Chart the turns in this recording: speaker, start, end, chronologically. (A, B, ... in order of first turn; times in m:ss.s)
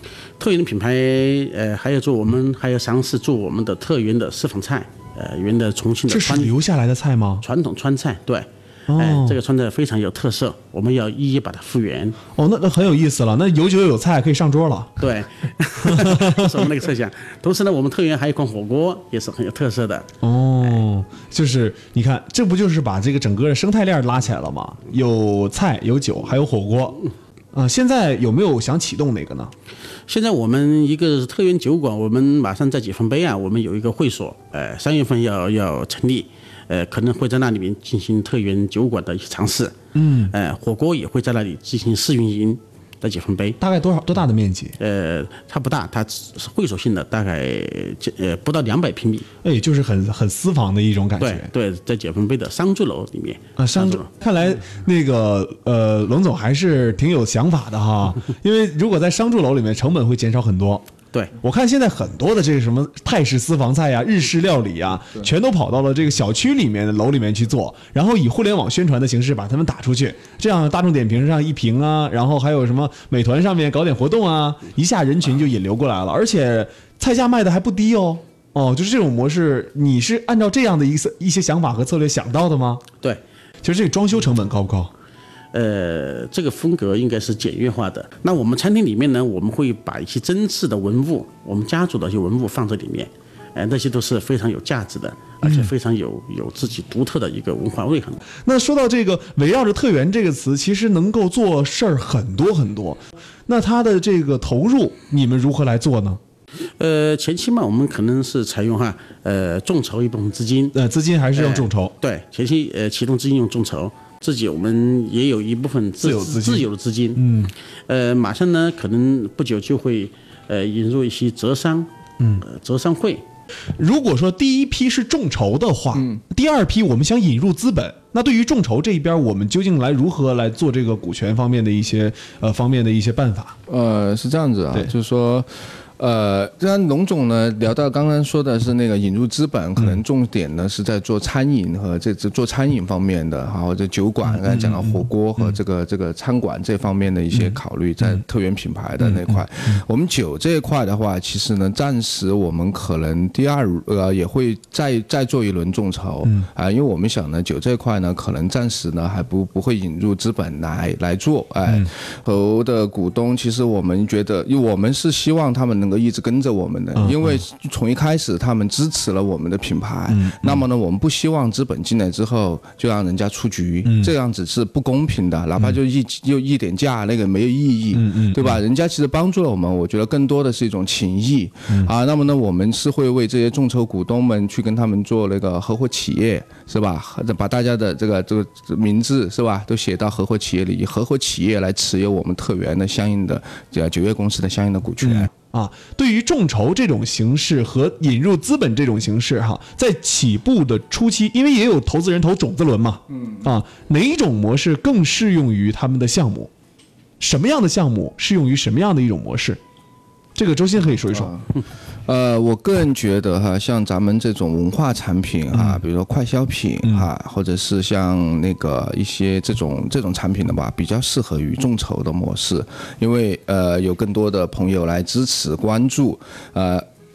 0:00.4-0:06.5 A
0:06.1-0:07.4 B
0:07.4-0:12.2 A
0:08.9-0:09.4 B
0:12.4-0:15.0 B
0:15.0-0:20.1 A
0:15.8-0:16.7 B
0:20.2-0:29.5 B
0:30.1-0:43.6 A
0:39.9-0:40.3 B
0:43.6-0:44.8 B
0:44.8-0:49.3 A
0:49.4-0:51.5 B
0:51.2-0:54.1 A
0:53.6-1:00.8 B
1:01.4-1:22.8 B
1:23.6-1:24.9 B
1:25.5-1:38.3 A
1:35.4-1:35.7 B
1:38.4-1:46.2 B
1:46.8-1:50.8 A
1:50.7-1:51.9 B
1:51.3-1:57.3 A
1:56.0-1:57.5 B
1:57.9-2:03.2 A
2:03.8-2:13.6 B
2:13.7-3:15.3 C
2:24.3-2:25.6 B
2:27.3-2:28.2 B
2:29.0-2:29.8 B
2:47.0-2:47.4 B
2:50.1-2:50.6 B
2:53.8-2:54.1 B
2:57.9-2:58.6 B
3:15.0-3:26.5 B
3:23.1-3:23.5 C
3:27.2-3:29.6 B
3:30.3-3:31.3 B
3:31.1-3:31.5 C
3:32.0-3:46.8 C
3:35.5-3:35.8 B